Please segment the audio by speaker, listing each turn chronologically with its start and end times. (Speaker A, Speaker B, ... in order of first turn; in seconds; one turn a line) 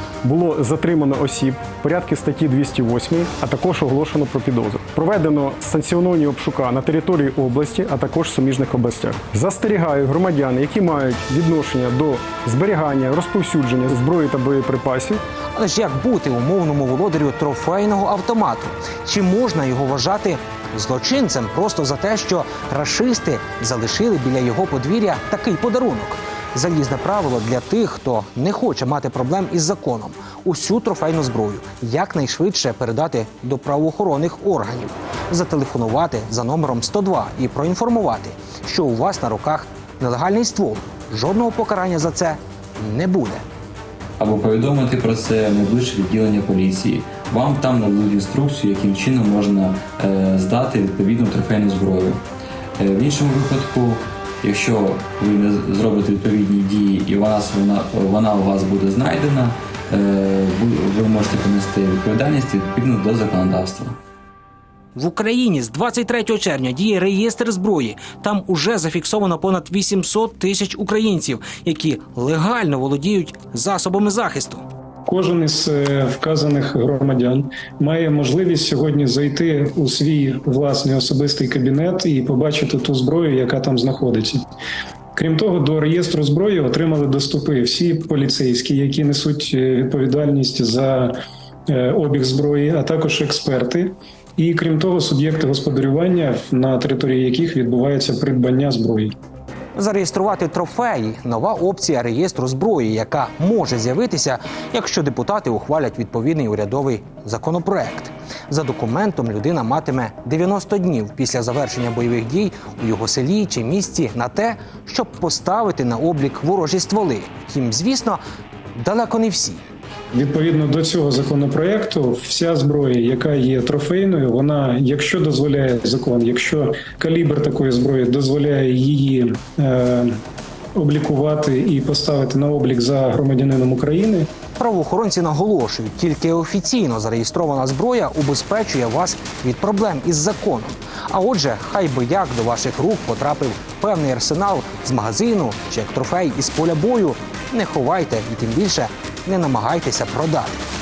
Speaker A: 0.3-15.2
Speaker B: 15.6-43.4
Speaker C: 44.2-52.2
Speaker C: 52.8-64.0
Speaker B: 65.0-74.6
Speaker D: 75.1-84.5
Speaker D: 85.2-91.1
Speaker D: 91.7-99.1
Speaker B: 99.8-118.2
Speaker B: 118.8-119.6
Speaker D: 120.1-130.2
Speaker D: 130.8-134.3
Speaker B: 134.6-150.6